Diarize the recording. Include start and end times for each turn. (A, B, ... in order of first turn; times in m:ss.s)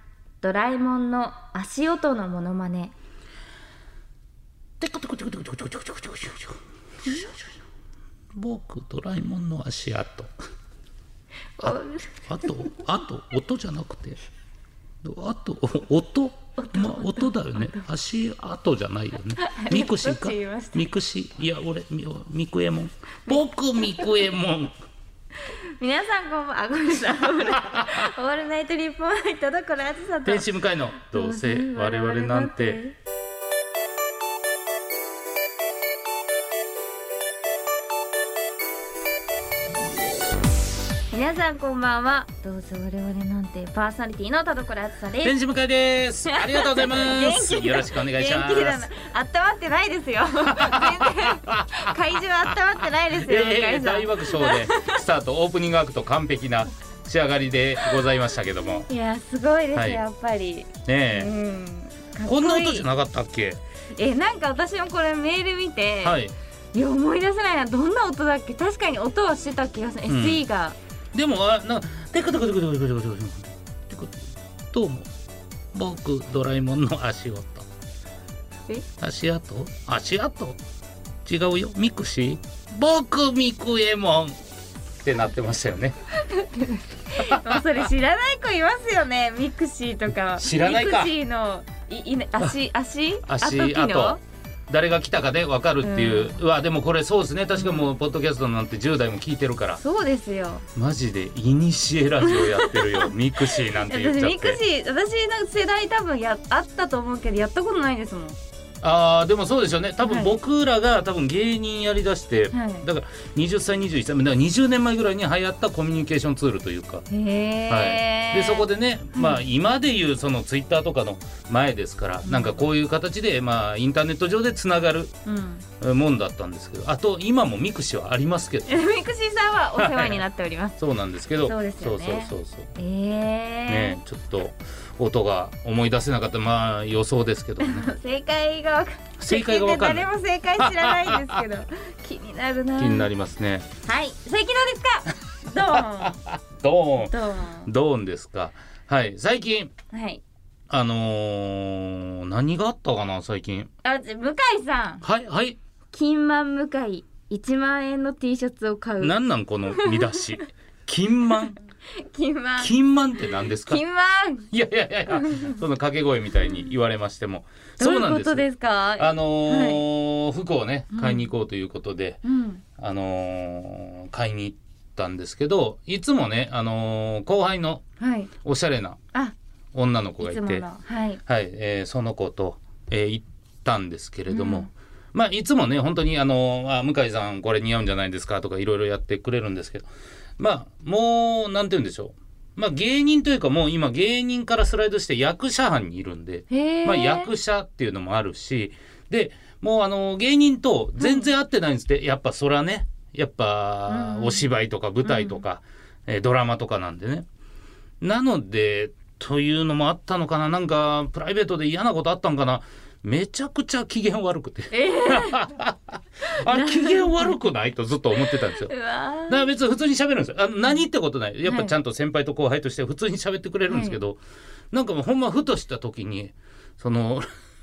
0:00.4-0:02.9 A
0:04.8-0:07.6 B
0:08.4-0:10.3 B
0:11.6-0:12.2 A
0:11.6-0:14.2 B
0:15.0-0:24.7 B
0:16.6-0:17.8 A
0:19.4-0:20.9 A
0:25.4-0:30.5 A
0:27.6-0:28.0 B
0:30.2-0:32.8 B
0:31.0-0:33.0 A
0:41.1-0:45.4 A
0:45.2-0:48.9 B
0:46.3-0:55.0 A
0:50.5-0:52.0 B
0:52.5-0:58.9 B
0:58.9-1:02.9 A
0:59.8-1:00.0 B
1:00.9-1:01.3 B
1:02.3-1:03.6 B
1:04.0-1:06.2 A
1:06.0-1:06.3 B
1:06.7-1:10.8 A
1:10.1-1:10.4 B
1:11.1-1:15.1 B
1:15.7-1:17.7 B
1:19.0-1:20.6 B
1:21.2-1:24.4 B
1:25.0-1:26.0 B
1:26.2-1:34.2 A
1:27.2-1:27.8 B
1:30.4-1:31.1 B
1:33.2-1:39.8 B
1:35.8-1:36.4 A
1:37.6-1:37.9 A
1:39.8-1:40.7 A
1:40.8-1:44.6 B
1:42.2-1:48.4 A
1:48.8-1:57.0 B
1:50.0-1:50.3 A
1:52.5-1:52.9 A
1:57.1-1:59.5 A
1:57.7-2:05.1 B
2:02.2-2:02.6 A
2:05.3-2:05.6 A
2:05.8-2:08.9 B
2:08.7-2:10.8 A
2:09.8-2:10.3 B
2:10.8-2:12.7 B
2:11.5-2:14.0 A
2:13.7-2:17.9 B
2:17.6-2:23.1 A
2:19.2-2:21.4 B
2:22.8-2:23.7 B
2:23.9-2:26.2 A
2:25.6-2:29.7 B
2:27.0-2:27.7 A
2:29.9-2:30.2 A
2:30.7-2:33.7 B
2:33.8-2:35.0 A
2:35.0-2:35.6 B
2:35.9-2:39.2 A
2:39.0-2:41.6 B
2:39.7-2:40.2 A
2:42.0-2:42.7 A
2:42.6-2:43.8 B
2:43.7-2:44.5 A
2:44.5-2:48.5 B
2:45.1-2:45.6 A
2:47.8-2:49.8 A
2:49.0-2:52.2 B
2:50.9-2:51.3 A
2:52.2-2:52.6 A
2:52.8-2:57.8 B
2:58.0-2:58.3 A
2:58.4-2:59.0 B
2:59.7-3:00.7 B
3:00.2-3:01.2 A
3:01.3-3:09.9 B
3:04.3-3:04.7 A
3:10.4-3:27.3 B
3:16.5-3:17.3 A
3:21.0-3:21.3 A
3:23.9-3:24.5 A
3:25.0-3:25.4 A
3:28.0-3:38.7 B
3:34.7-3:35.5 A
3:36.5-3:37.4 A
3:38.4-3:39.5 A
3:39.3-3:44.2 B
3:41.5-3:41.7 A
3:43.7-3:44.0 A
3:44.7-3:47.3 B